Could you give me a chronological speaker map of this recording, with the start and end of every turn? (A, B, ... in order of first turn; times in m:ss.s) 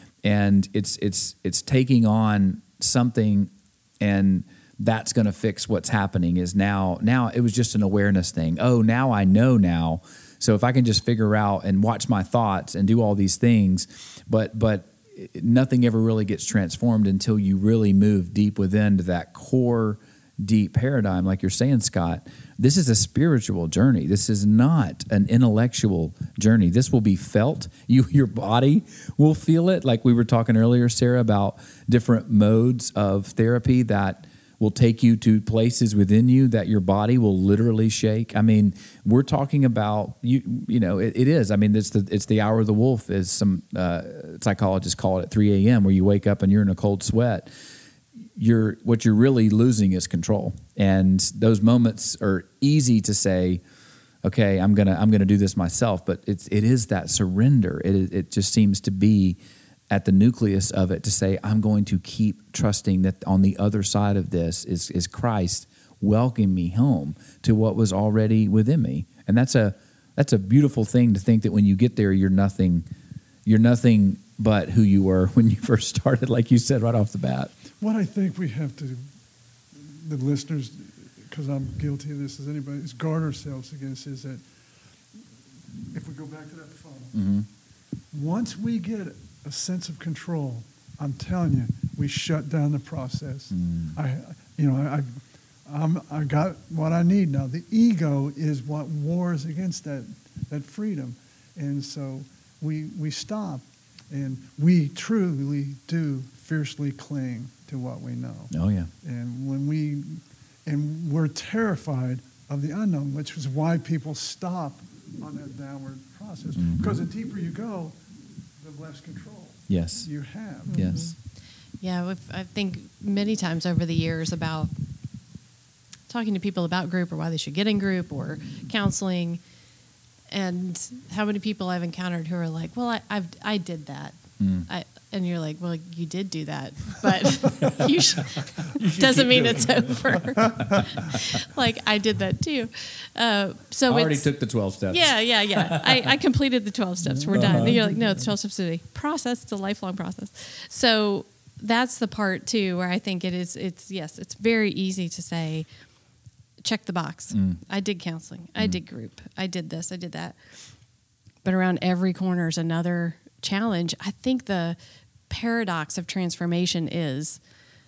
0:00.2-0:47.5 A
0:48.4-0:53.6 A
0:54.2-0:59.4 A
0:59.9-1:12.8 A
1:13.4-1:17.5 A
1:17.8-1:19.1 B
1:19.7-1:24.4 B
1:25.9-1:27.2 B
1:27.1-1:27.5 A
1:28.1-1:48.5 B
1:33.5-1:34.0 A
1:48.5-1:48.9 A
1:49.0-1:58.0 B
1:56.6-1:56.9 A
1:58.6-2:00.9 B
1:59.7-2:00.1 A
2:00.7-2:01.1 C
2:00.7-2:01.1 A
2:01.8-2:04.7 C
2:06.1-2:09.4 C
2:10.3-2:24.3 C
2:14.4-2:14.7 A
2:17.4-2:21.3 A
2:23.9-2:26.2 A
2:24.9-2:35.6 C
2:27.3-2:28.0 A
2:27.4-2:27.9 B
2:36.6-2:40.4 C
2:37.3-2:37.6 A
2:41.4-2:44.8 C
2:45.3-2:47.4 C